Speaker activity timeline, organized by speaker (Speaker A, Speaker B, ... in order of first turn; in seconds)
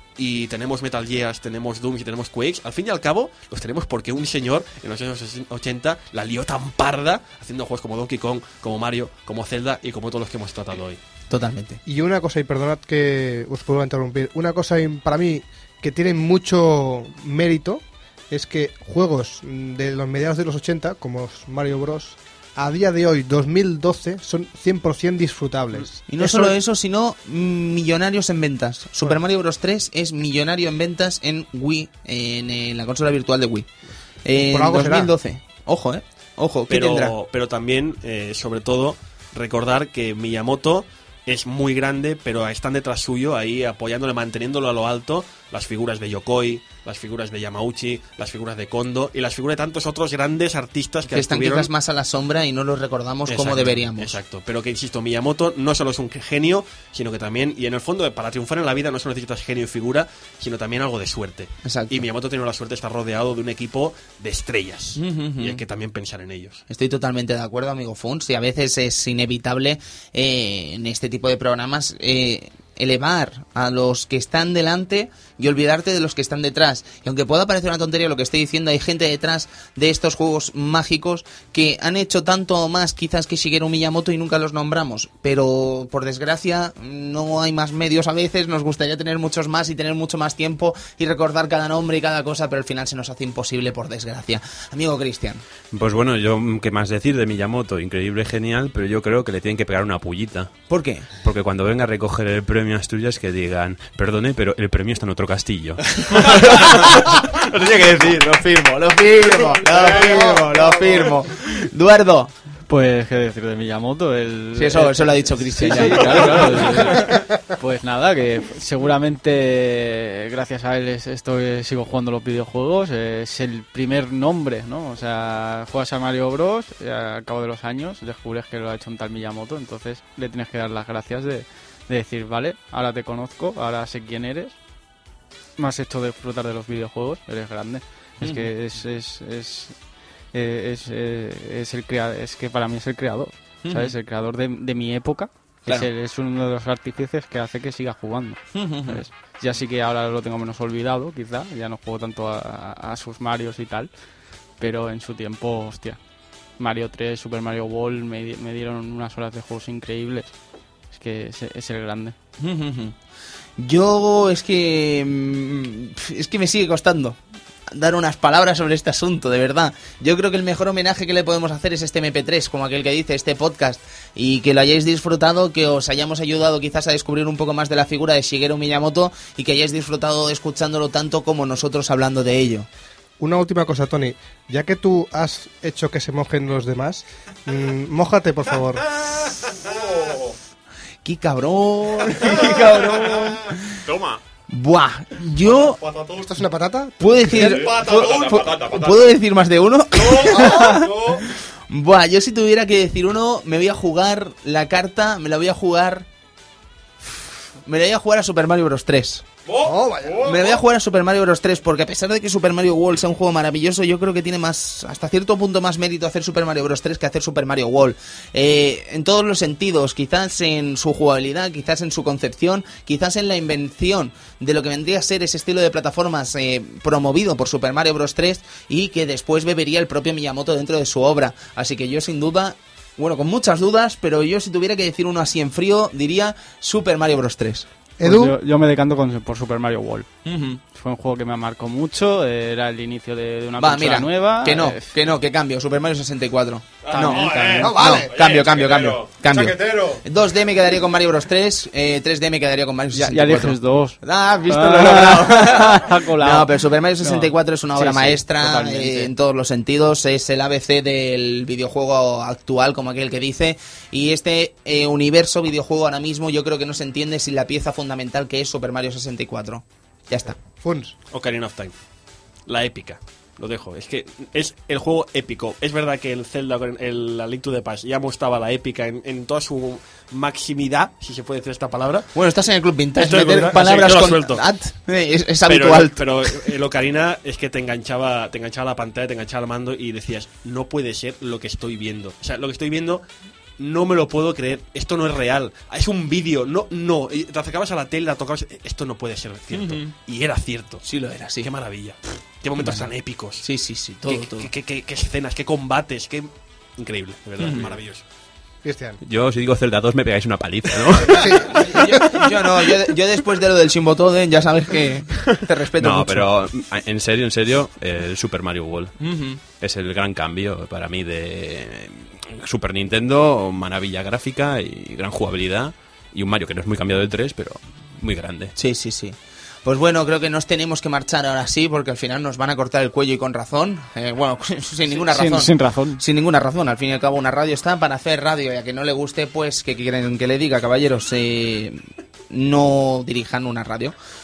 Speaker A: 0.2-11.0, 36.7-51.7, 53.3-66.6, 106.1-108.3, 209.5-209.7, 246.8-250.0, 271.1-271.7, 272.5-282.1, 283.0-284.4, 285.4-293.0, 293.6-300.8, 301.4-303.4, 304.1-308.0
Speaker B: 11.3-11.8, 26.1-33.7, 34.2-37.1, 51.1-54.2, 61.6-62.0, 65.0-65.6, 66.7-95.4, 100.7-101.1, 106.0-107.1, 107.6-112.3, 114.5-117.2, 138.2-138.5, 143.6-143.9, 148.5-149.0, 162.4-162.9, 163.6-182.7, 191.0-193.6, 194.5-195.8, 197.0-206.1, 207.6-209.2, 210.2-237.7, 240.2-240.6, 243.6-270.4, 282.1-286.6, 299.5-299.9, 300.8-301.5, 302.6-304.5, 307.4-307.8, 311.1-316.3, 319.0-319.4, 328.6-343.9
Speaker C: 11.8-26.5, 34.5-35.1, 109.7-111.1, 183.2-188.9, 196.1-197.8, 209.6-210.4, 238.0-238.3, 247.8-248.1, 270.6-270.9, 308.6-309.0, 311.1-311.5
Speaker D: 95.7-100.5, 101.2-106.0, 189.1-190.2, 192.2-193.3, 193.8-194.2, 195.6-196.2, 197.3-199.0, 200.1-201.2, 247.5-248.0, 309.0-312.2, 315.3-318.9, 319.5-328.5
Speaker E: 112.7-134.5, 135.6-139.8, 140.3-153.9, 154.6-156.0, 156.6-160.3, 160.9-162.1, 238.0-240.1, 240.7-244.9, 246.9-247.7, 252.9-259.1, 335.1-336.0